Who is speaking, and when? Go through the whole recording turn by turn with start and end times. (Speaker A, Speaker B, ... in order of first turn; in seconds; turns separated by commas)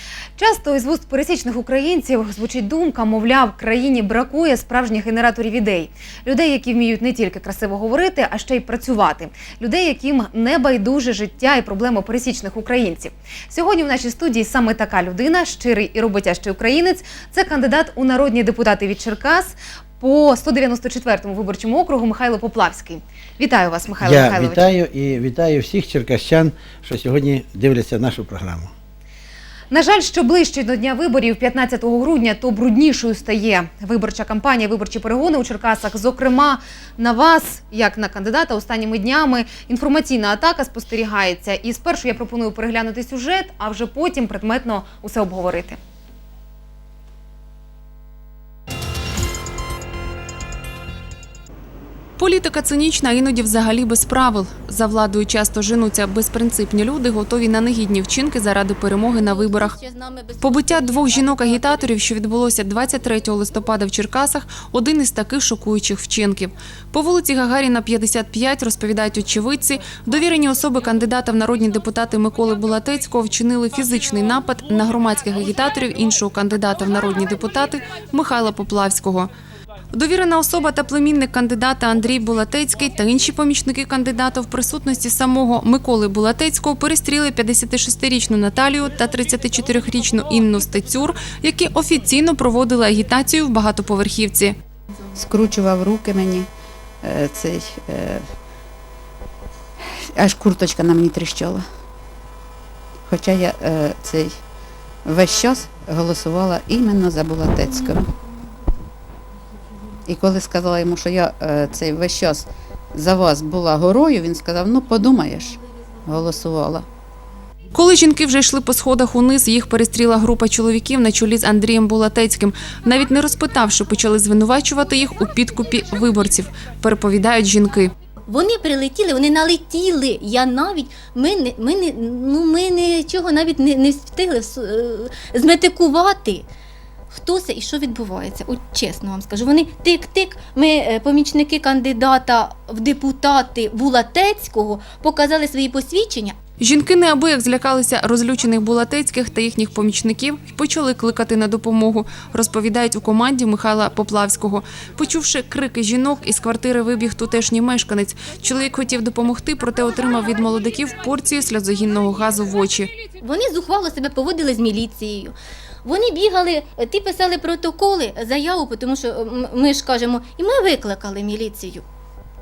Speaker A: 0.4-24.7, Speaker B: 24.0-28.7, Speaker A: 29.7-45.8, Speaker C: 52.2-59.7, Speaker D: 59.1-62.1, Speaker C: 60.4-79.3, Speaker C: 79.9-94.5, Speaker E: 95.1-96.5, Speaker E: 97.0-98.3, Speaker E: 100.2-101.6, Speaker E: 103.0-104.3, Speaker E: 105.0-108.1, Speaker E: 110.0-116.8, Speaker C: 117.7-127.9, Speaker D: 128.3-136.5, Speaker D: 137.1-146.4, Speaker C: 146.6-162.9, Speaker D: 163.2-171.8